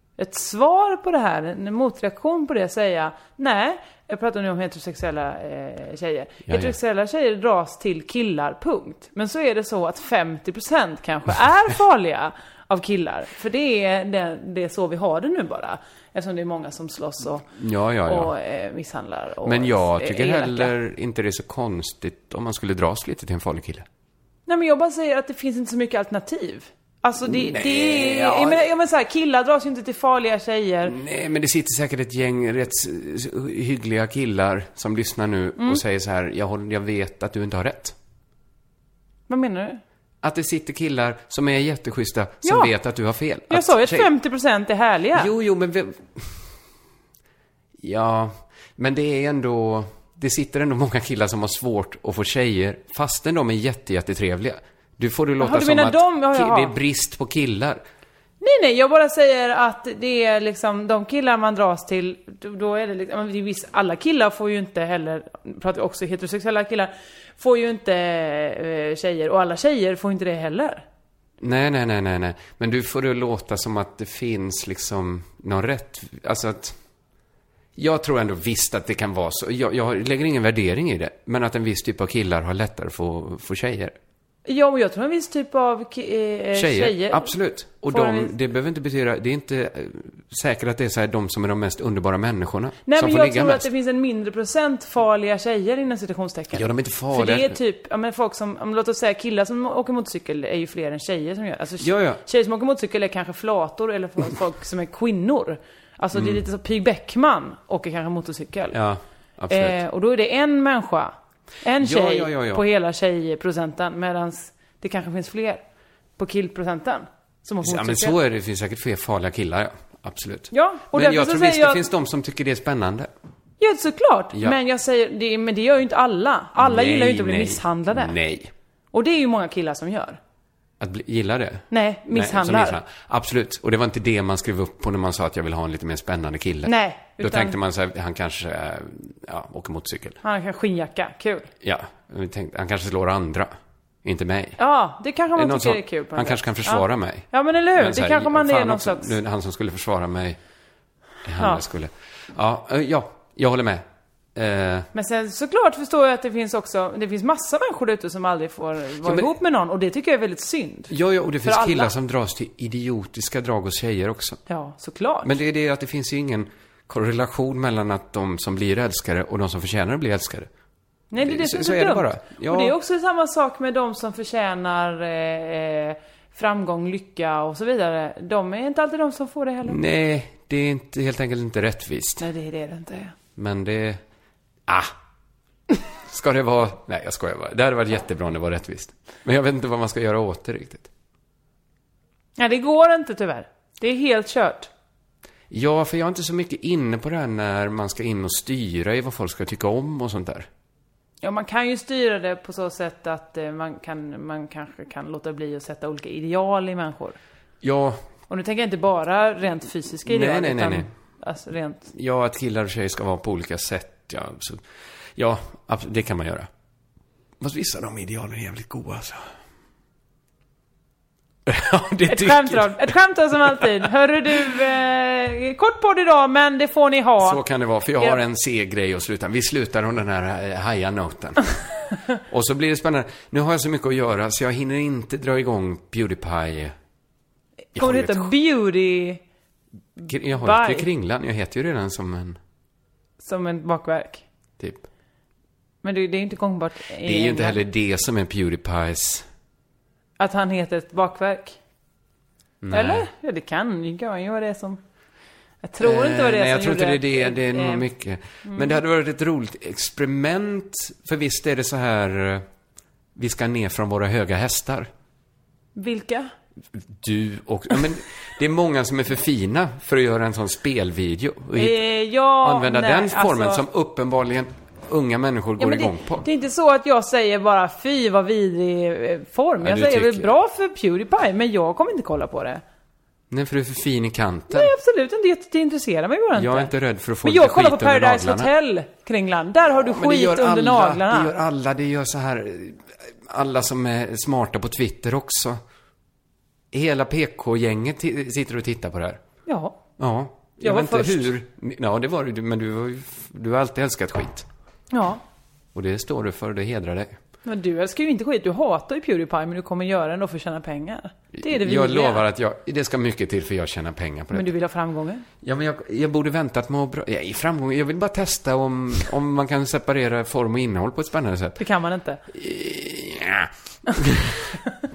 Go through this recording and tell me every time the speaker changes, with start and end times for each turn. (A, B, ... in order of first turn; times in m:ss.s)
0:00.2-0:17.5 A
0:06.5-0:06.8 B
0:17.6-0:18.3 B
0:18.1-0:20.7 A
0:19.4-0:23.9 B
0:24.5-0:31.0 A
0:27.3-0:28.7 B
0:30.9-0:38.0 B
0:39.3-0:39.8 A
0:40.2-0:44.1 B
0:42.4-0:42.7 A
0:43.5-0:45.3 A
0:45.1-0:46.5 B
0:47.8-0:57.8 B
0:55.4-0:56.7 A
0:58.4-1:10.9 A
1:11.4-1:16.8 B
1:17.8-1:24.0 B
1:24.5-1:27.4 A
1:26.5-1:33.7 B
1:27.9-1:28.4 A
1:32.8-1:48.8 A
1:36.5-1:37.6 B
1:41.8-1:42.2 B
1:46.1-1:46.4 B
1:48.7-1:49.8 B
1:49.5-1:55.6 A
1:51.8-1:52.6 B
1:56.2-1:58.2 A
1:57.6-2:03.1 B
2:00.5-2:01.8 A
2:03.6-2:08.2 A
2:06.6-2:08.5 B
2:08.9-2:10.2 A
2:10.8-2:20.2 B
2:11.7-2:12.8 A
2:16.6-2:17.6 A
2:20.2-2:21.5 A
2:21.6-2:23.5 B
2:24.0-2:24.6 B
2:24.6-2:29.2 A
2:25.4-2:30.4 B
2:31.2-2:33.8 B
2:34.4-2:34.9 B
2:34.9-2:40.9 A
2:39.0-2:39.3 B
2:40.9-2:44.4 B
2:41.4-2:41.9 A
2:44.5-2:45.3 A
2:45.2-2:50.5 B
2:51.1-2:59.8 A
2:51.2-2:52.7 B
2:59.6-3:02.3 B
3:02.2-3:03.2 A
3:03.4-3:04.0 B
3:04.7-3:04.9 B
3:06.1-3:10.9 B
3:12.4-3:14.7 A
3:15.5-3:20.5 B
3:21.2-3:27.2 A
3:27.6-3:28.0 B
3:28.3-3:31.9 A
3:30.1-3:30.9 B
3:31.9-3:34.6 B
3:35.2-3:36.5 B
3:37.4-3:39.3 B
3:41.5-3:43.6 B
3:42.1-3:47.4 A
3:47.2-3:51.5 B
3:52.2-3:56.8 B
3:57.7-3:59.2 A
3:57.8-3:58.3 B
4:00.1-4:02.4 B
4:00.4-4:00.9 A
4:03.2-4:04.2 A
4:04.6-4:04.8 B
4:05.8-4:07.6 A
4:07.0-4:09.3 B
4:10.2-4:11.6 A
4:12.6-4:13.1 B
4:12.7-4:14.8 A
4:15.6-4:17.9 A
4:15.8-4:22.4 B
4:18.4-4:18.8 A
4:23.2-4:24.9 B
4:25.8-4:26.3 A
4:26.8-4:31.8 B
4:31.6-4:33.6 A
4:32.4-4:36.2 B
4:35.6-4:42.6 A
4:39.6-4:40.3 B
4:43.3-4:44.7 B
4:44.5-4:46.7 A
4:46.4-4:48.5 B
4:47.2-4:51.3 A
4:49.7-4:55.6 B
4:56.7-4:59.2 B
4:59.5-4:59.8 A
5:00.0-5:04.5 B
5:00.6-5:01.3 A
5:04.9-5:05.2 A
5:05.8-5:07.2 B
5:07.4-5:12.2 A
5:11.3-5:14.5 B
5:14.3-5:15.3 A
5:15.4-5:21.6 B
5:21.6-5:22.2 A
5:22.3-5:24.6 B